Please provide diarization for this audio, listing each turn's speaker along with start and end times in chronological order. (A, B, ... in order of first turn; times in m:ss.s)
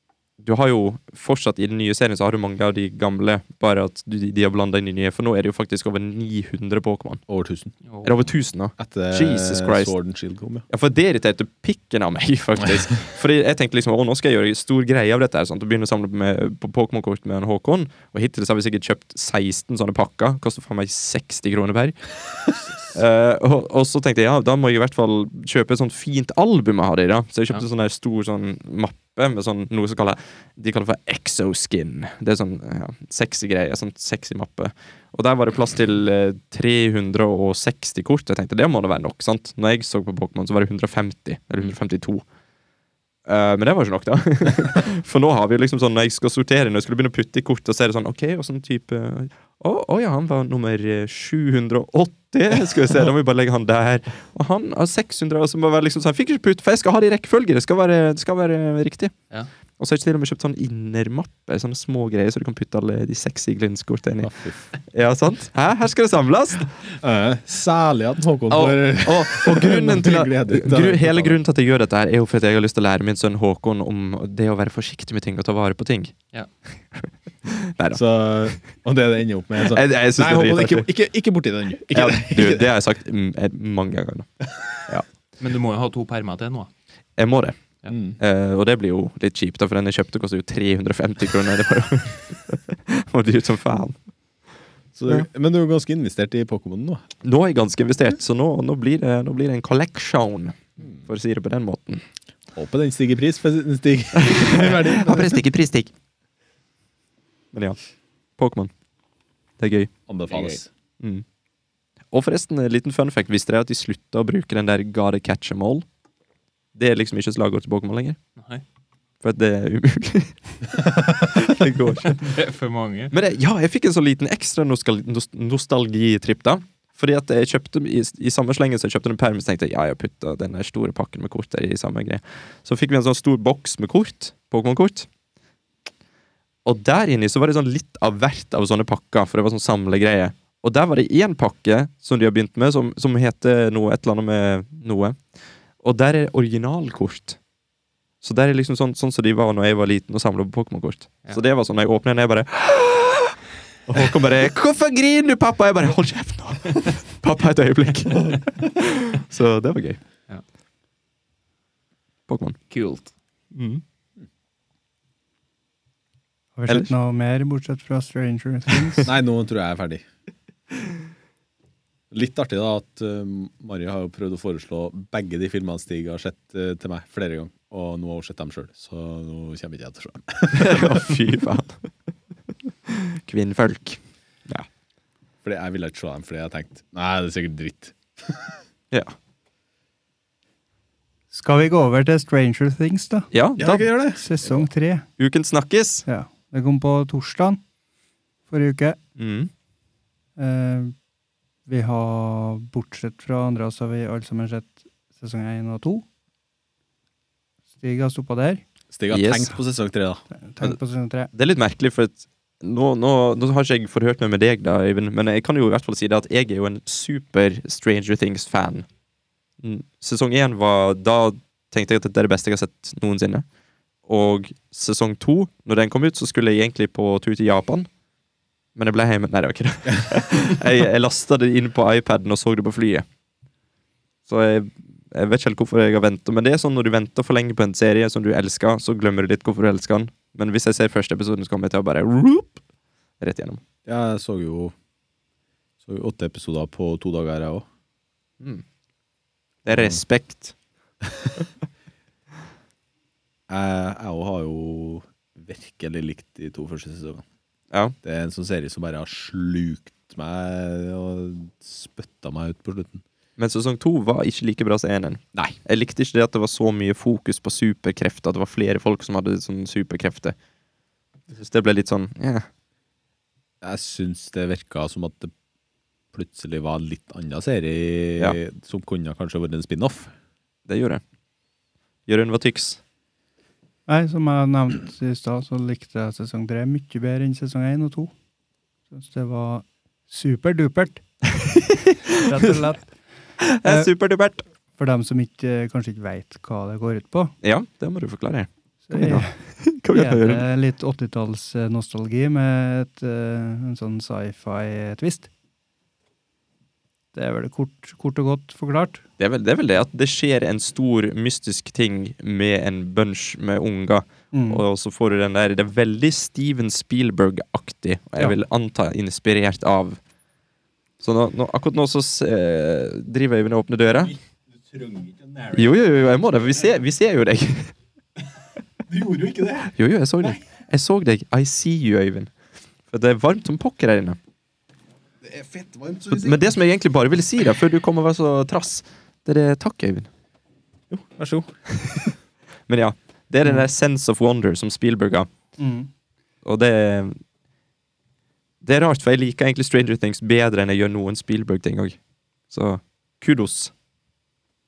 0:00.4-0:07.2 A
0:07.3-0:07.7 B
0:07.9-0:08.1 C
0:08.0-0:10.0 A
0:08.8-0:10.6 B
0:10.7-0:22.1 A
0:22.9-0:42.2 A
0:43.3-0:59.1 A
0:59.8-1:04.3 A
1:04.2-1:04.6 B
1:04.9-1:06.7 A
1:07.0-1:11.4 B
1:08.5-1:16.2 A
1:17.0-1:18.0 A
1:17.9-1:22.7 B
1:19.6-1:20.9 A
1:21.9-1:24.3 A
1:25.4-1:26.7 C
1:27.2-1:27.6 A
1:27.9-1:28.2 B
1:28.2-1:34.0 A
1:35.0-1:37.0 B
1:37.2-1:42.0 A
1:40.8-1:41.0 B
1:42.6-1:45.4 B
1:44.2-1:45.9 A
1:48.4-1:48.7 A
1:49.6-1:49.9 A
1:50.1-1:50.7 B
1:50.3-1:50.6 C
1:52.1-1:55.9 A
1:56.8-1:58.2 A
1:58.4-1:58.6 C
1:59.2-2:02.2 A
2:02.0-2:03.1 C
2:03.1-2:15.1 A
2:16.6-2:25.2 A
2:25.8-2:27.4 A
2:28.2-2:40.0 A
2:42.3-2:42.6 A
2:42.7-2:43.1 C
2:43.5-2:43.8 A
2:46.6-2:49.1 D
2:49.0-2:50.0 B
2:52.1-3:01.2 B
3:00.5-3:01.9 A
3:02.9-3:04.7 A
3:05.4-3:08.6 B
3:11.3-3:13.3 D
3:13.3-3:13.9 A
3:13.6-3:14.2 B
3:14.2-3:15.1 D
3:15.2-3:16.0 A
3:16.1-3:17.6 D
3:18.5-3:19.0 D
3:19.2-3:19.5 A
3:20.4-3:21.0 D
3:21.7-3:26.0 D
3:27.8-3:28.6 D
3:28.9-3:30.8 B
3:29.1-3:29.6 A
3:30.3-3:31.3 D
3:31.3-3:38.9 A
3:39.6-3:43.4 A
3:44.1-3:47.9 A
3:48.8-3:53.0 A
3:54.3-4:02.6 A
4:03.2-4:03.6 A
4:03.8-4:04.7 B
4:05.8-4:07.7 B
4:09.6-4:10.6 A
4:09.7-4:10.0 B
4:11.0-4:11.3 B
4:13.5-4:17.2 B
4:18.0-4:23.0 B
4:23.4-4:30.4 A
4:31.3-4:32.4 A
4:33.6-4:35.3 B
4:36.1-4:40.1 B
4:40.7-4:41.0 A
4:42.1-4:42.8 A
4:43.9-4:48.1 D
4:48.9-4:51.0 D
4:51.4-4:52.2 A
4:52.2-4:52.9 D
4:53.4-4:54.4 A
4:53.6-4:53.9 D
4:54.8-4:57.3 D
4:57.4-5:00.4 A
4:58.9-5:05.3 D
5:07.1-5:09.0 D
5:09.2-5:20.0 A
5:14.3-5:14.6 D
5:21.0-5:24.1 A
5:24.7-5:25.7 B
5:25.5-5:27.7 A
5:28.9-5:30.4 B
5:29.7-5:32.3 A
5:32.9-5:34.2 A
5:35.2-5:36.4 B
5:36.1-5:40.1 A
5:40.9-5:41.5 B
5:41.7-5:42.1 A
5:42.7-5:45.3 A
5:45.6-5:45.9 D
5:46.4-5:47.2 A
5:48.6-5:52.0 A
5:52.5-5:53.7 A